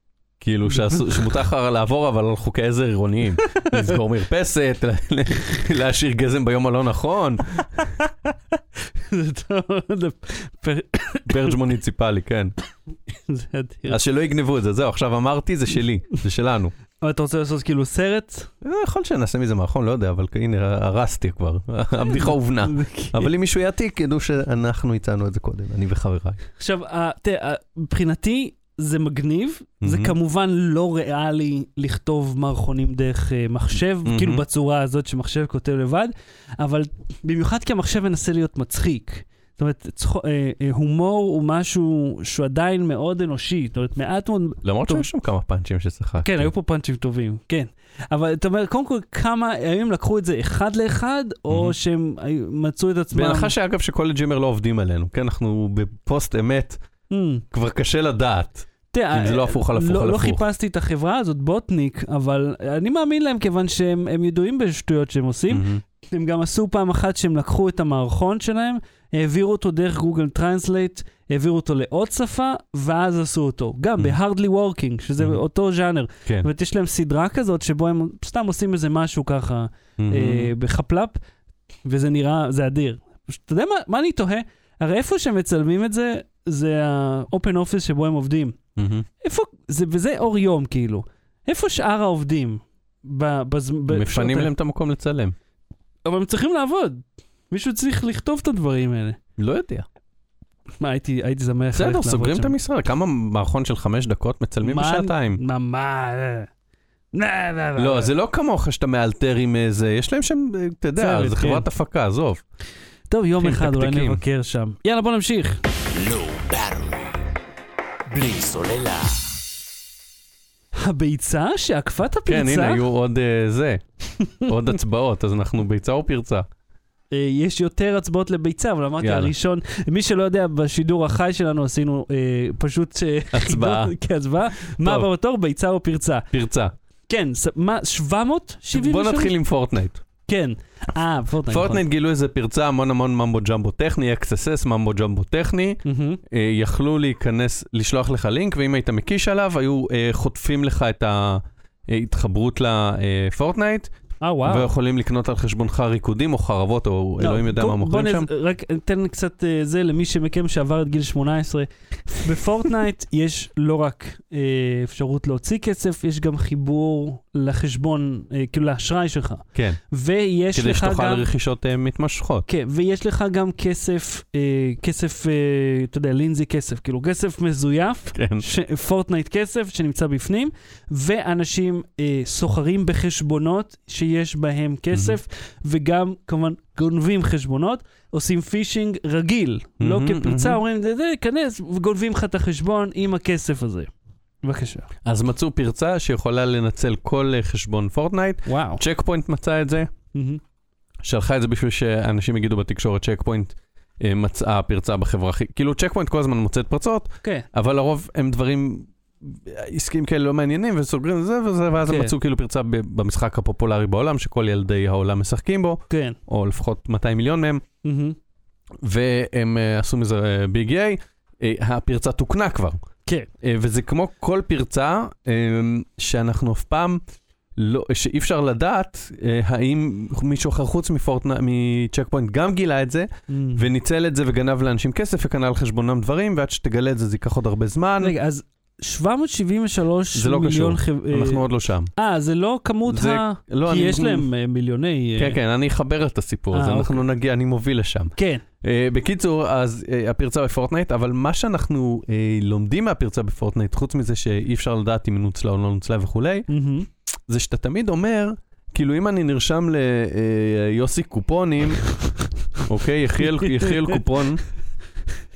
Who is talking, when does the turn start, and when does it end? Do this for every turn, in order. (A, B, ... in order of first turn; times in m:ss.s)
0:00.4-0:07.6 A
0:00.7-0:01.3 B
0:03.4-0:04.0 B
0:07.8-0:08.3 B
0:08.9-0:11.6 B
0:11.3-0:12.5 A
0:13.3-0:14.0 B
0:13.9-0:16.7 A
0:17.0-0:18.5 B
0:18.6-0:26.4 A
0:22.0-0:23.3 B
0:26.6-0:45.0 B
0:29.8-0:30.1 A
0:34.0-0:34.4 A
0:44.6-0:46.5 A
0:46.2-0:53.5 B
0:51.5-0:51.8 A
0:53.1-0:56.8 A
0:57.1-0:57.4 B
0:57.5-1:00.4 A
0:58.9-1:21.2 B
1:05.5-1:05.8 A
1:20.0-1:20.5 A
1:21.8-1:28.6 B
1:28.8-1:29.0 A
1:29.2-1:34.5 B
1:33.9-1:35.4 A
1:36.0-1:39.2 B
1:39.4-1:39.8 A
1:40.8-1:42.5 B
1:41.7-1:45.4 A
1:44.6-1:46.5 B
1:47.1-1:48.1 B
1:47.8-1:52.4 A
1:51.0-1:51.7 B
1:53.1-1:55.6 B
1:53.4-1:54.2 A
1:55.9-1:57.2 C
1:58.1-1:59.3 C
2:00.7-2:02.8 B
2:02.2-2:03.8 A
2:04.2-2:04.5 B
2:04.4-2:06.5 A
2:07.1-2:16.3 B
2:09.0-2:09.3 A
2:13.3-2:13.9 A
2:14.8-2:15.1 A
2:16.3-2:16.7 A
2:17.1-2:19.3 B
2:18.7-2:20.0 A
2:20.3-2:21.8 B
2:21.5-2:33.9 A
2:25.8-2:26.2 B
2:34.2-2:34.7 B
2:34.4-2:38.3 A
2:37.2-2:51.3 B
2:50.5-2:52.4 A
2:52.5-3:13.9 B
2:58.1-2:58.4 A
3:09.8-3:10.6 A
3:14.4-3:14.9 B
3:15.0-3:19.9 A
3:18.4-3:18.8 B
3:20.1-3:20.4 B
3:21.0-3:37.6 A
3:31.8-3:32.1 B
3:35.9-3:36.2 B
3:37.8-3:38.2 B
3:38.8-3:42.8 A
3:43.4-3:47.0 A
3:47.6-3:58.1 A
3:53.3-3:53.7 B
3:58.0-4:01.4 B
4:00.1-4:01.9 A
4:02.0-4:05.4 B
4:02.9-4:04.3 A
4:05.2-4:16.5 A
4:06.5-4:07.0 B
4:08.2-4:08.4 B
4:16.5-4:16.9 B
4:17.3-4:21.8 A
4:22.6-4:24.4 A
4:23.2-4:24.0 B